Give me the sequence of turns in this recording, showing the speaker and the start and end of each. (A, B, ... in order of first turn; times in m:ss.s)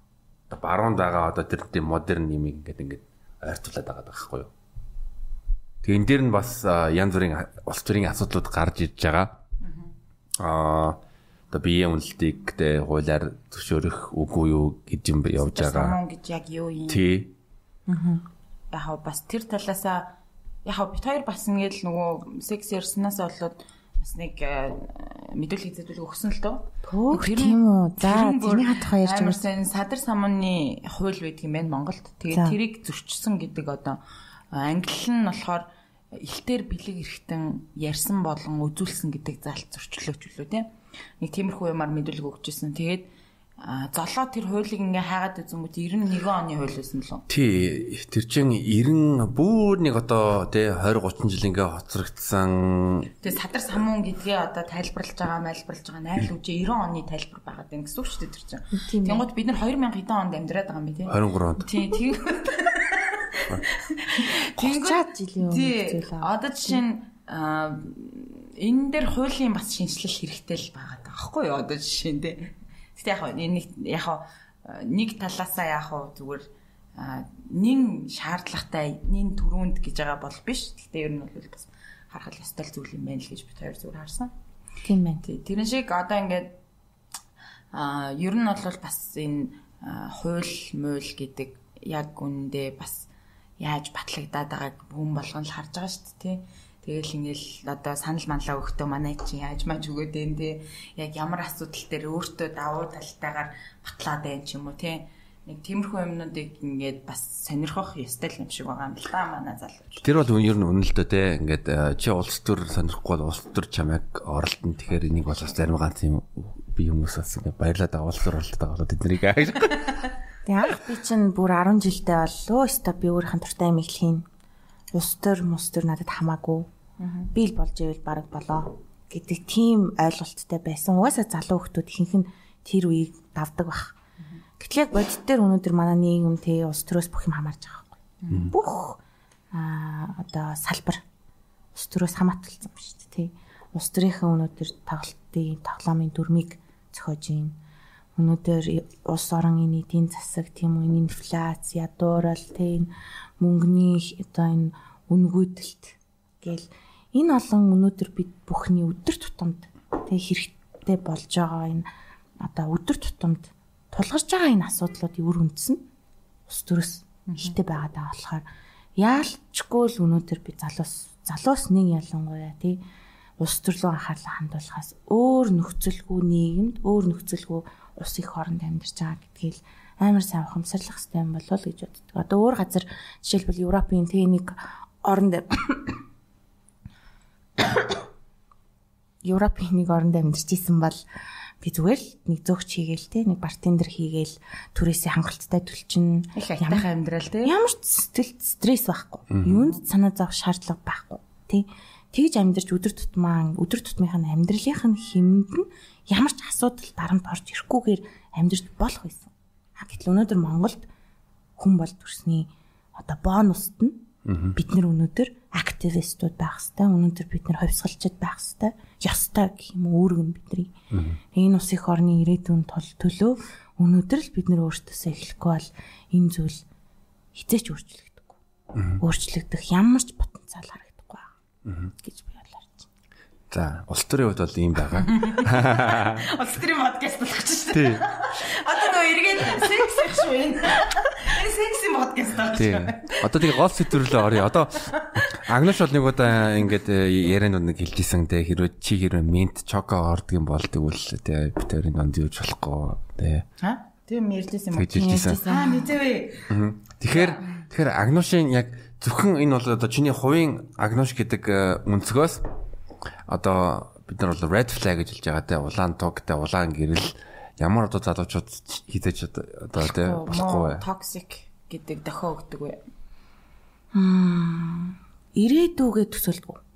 0:00.5-0:04.5 A
0:05.8-0:09.4 A
0:09.6-0:09.9 B
0:10.4-0:16.0 A
0:15.4-0:17.1 B
0:16.9-0:17.3 A
0:17.9-0:18.2 C
0:18.7-0:20.1 B
0:20.6-0:34.0 B
0:26.8-0:29.4 C
0:32.3-0:32.6 C
0:34.5-0:47.3 B
0:47.3-0:53.1 A
0:53.2-1:24.3 B
0:58.8-0:59.2 C
1:01.1-1:01.7 A
1:04.6-1:06.8 C
1:24.8-1:25.2 C
1:25.2-1:26.6 B
1:27.7-1:50.1 B
1:50.0-2:00.0 A
2:00.4-2:04.2 C
2:04.9-2:06.7 C
2:07.0-2:07.3 B
2:07.3-2:13.9 C
2:14.6-2:19.0 C
2:18.2-2:18.5 B
2:19.5-2:21.0 C
2:21.7-2:27.6 C
2:28.2-2:41.9 C
2:42.4-2:45.8 C
2:46.5-2:48.4 C
2:47.3-2:47.5 B
2:49.0-2:52.8 C
2:53.4-3:06.0 C
3:09.2-3:11.0 C
3:11.6-3:16.8 C
3:16.3-3:17.5 B
3:17.4-3:30.8 C
3:19.3-3:19.6 A
3:31.6-3:40.7 C
3:34.2-3:34.6 A
3:40.9-3:41.2 A
3:41.3-3:46.6 C
3:47.3-3:48.4 C
3:48.7-3:49.0 A
3:49.0-3:51.3 C
3:51.6-3:51.9 A
3:52.0-3:52.9 C
3:53.5-3:56.2 A
3:55.1-4:04.3 B
3:57.7-3:58.0 A
4:02.5-4:13.4 A
4:04.8-4:05.4 B
4:13.6-4:16.5 B
4:14.7-4:15.4 A
4:14.9-4:15.9 C
4:16.5-4:22.5 A
4:17.1-4:17.6 B
4:23.2-4:30.8 A
4:29.8-4:32.8 B
4:33.9-4:36.6 C